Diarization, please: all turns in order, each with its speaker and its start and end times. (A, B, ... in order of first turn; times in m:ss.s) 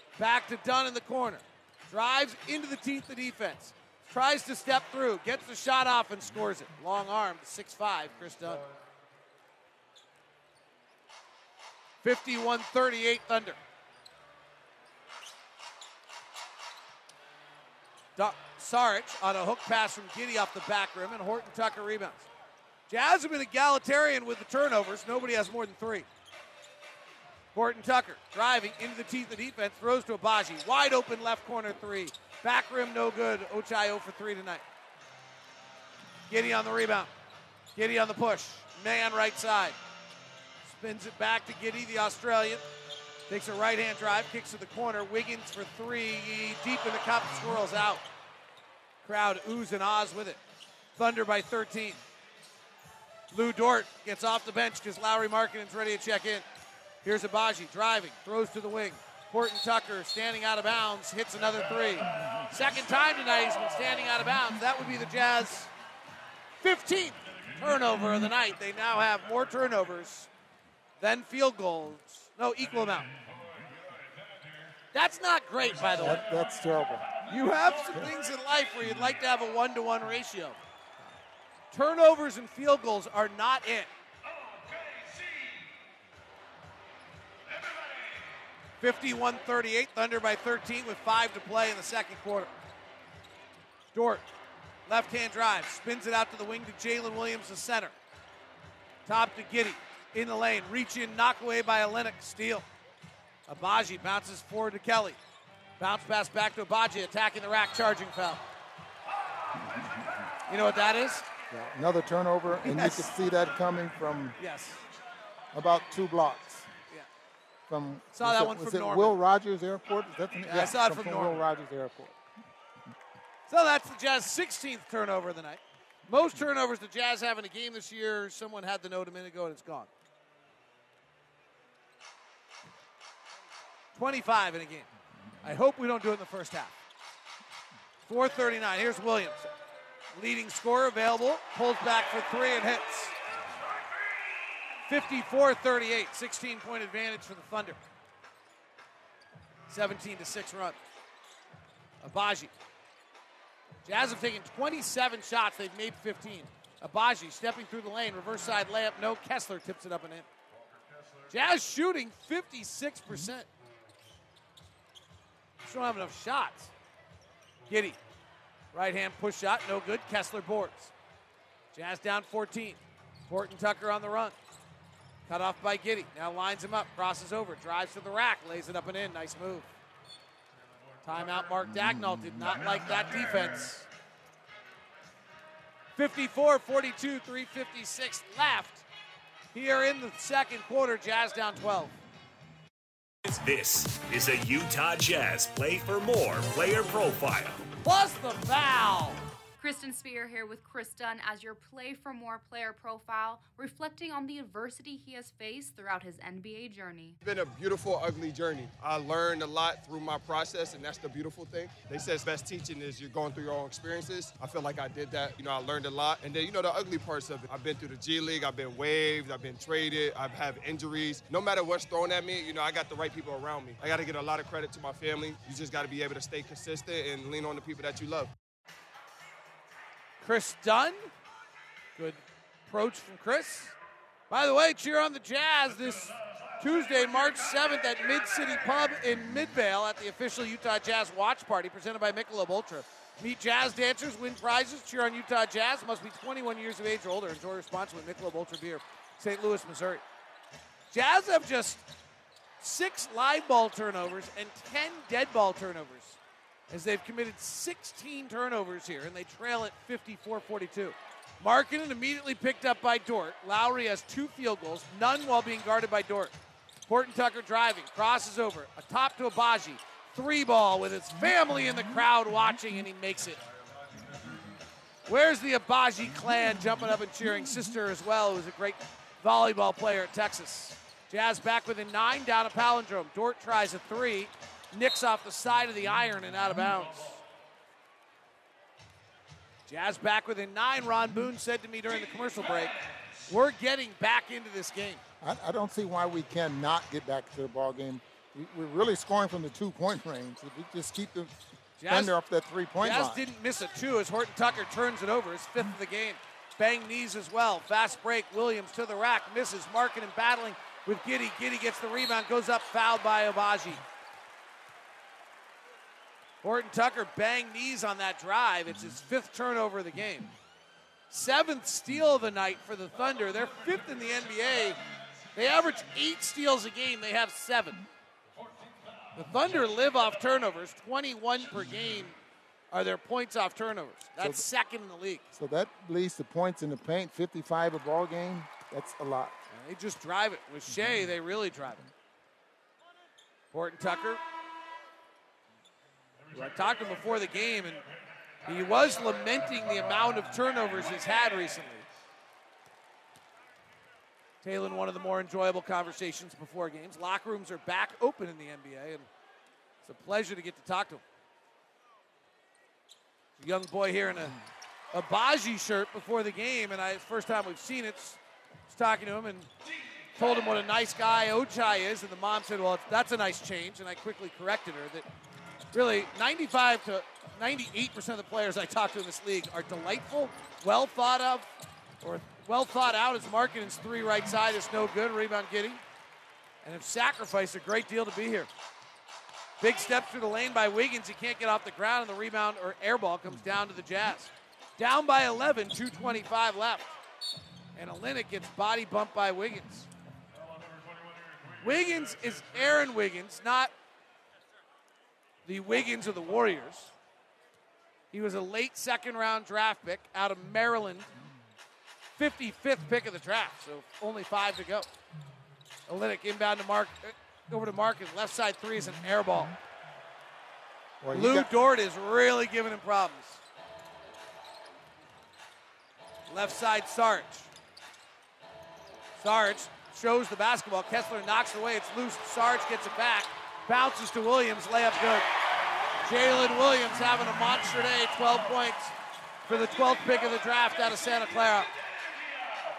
0:00.2-0:08.6 A
0:12.0-0:13.6 A
0:18.2-0:22.3 A
0:22.9-0:26.1 A
0:27.5-0:34.6 A
0:36.3-0:37.1 A
0:37.7-0:39.8 A
0:40.6-0:42.6 A
0:43.3-0:48.0 A
0:49.0-0:50.4 A
0:51.0-0:52.0 A
0:53.3-0:56.4 A
0:57.0-1:05.7 A
1:06.6-1:10.3 A
1:11.0-1:13.1 A
1:14.9-1:16.2 A
1:16.0-1:17.2 B
1:17.3-1:20.6 A
1:21.7-1:23.9 A
1:28.8-1:32.5 A
1:33.9-1:34.2 A
1:34.9-1:37.9 A
1:39.0-1:42.6 A
1:43.5-1:45.2 A
1:45.8-1:48.4 A
1:50.5-1:51.3 A
1:51.5-1:54.4 B
1:52.6-1:53.1 A
1:54.4-1:54.8 A
1:55.5-1:56.7 B
1:57.7-2:02.2 B
1:58.1-1:59.2 A
2:00.4-2:01.4 A
2:03.5-2:09.9 A
2:14.0-2:14.9 A
2:15.4-2:16.8 A
2:18.1-2:19.5 A
2:20.1-2:23.1 A
2:24.9-2:27.8 A
2:29.7-2:30.8 A
2:32.0-2:32.5 A
2:33.8-2:40.3 A
2:41.3-2:43.5 A
2:45.6-2:46.7 A
2:47.7-2:48.0 A
2:48.7-2:50.9 A
2:51.7-2:54.3 A
2:55.3-2:59.7 A
3:01.0-3:03.9 A
3:06.0-3:08.8 A
3:09.5-3:12.0 A
3:13.3-3:17.6 C
3:17.8-3:19.2 A
3:19.6-3:27.2 D
3:27.2-3:48.3 E
3:50.2-3:51.1 A
3:52.0-3:53.7 A
3:54.3-4:10.0 A
4:10.9-4:11.9 A
4:12.6-4:16.2 A
4:16.7-4:26.3 A
4:26.9-4:33.4 A
4:35.1-4:47.2 A
4:49.7-4:52.7 A
4:53.3-4:55.0 A
4:55.2-5:03.2 B
5:01.8-5:02.1 A
5:02.8-5:13.8 A
5:16.4-5:20.4 A
5:21.1-5:24.8 A
5:25.3-5:27.8 A
5:29.1-5:32.1 A
5:32.7-5:35.3 A
5:35.3-5:39.4 B
5:39.5-5:41.9 A
5:43.5-5:44.2 A
5:46.3-5:47.8 A
5:48.4-5:51.8 A
5:54.4-5:59.1 A
5:59.8-6:01.0 A
6:03.4-6:04.4 A
6:04.9-6:09.5 A
6:10.2-6:15.1 A
6:15.7-6:25.8 A
6:26.6-6:28.5 A
6:29.6-6:36.9 A
6:37.7-6:39.9 A
6:41.6-6:43.7 A
6:45.4-6:46.9 A
6:48.1-6:51.1 A
6:52.2-6:54.9 A
6:55.9-6:59.6 A
7:01.0-7:01.5 B
7:01.1-7:03.4 A
7:06.3-7:07.5 A
7:09.2-7:15.3 A
7:16.0-7:18.9 A
7:19.5-7:21.7 A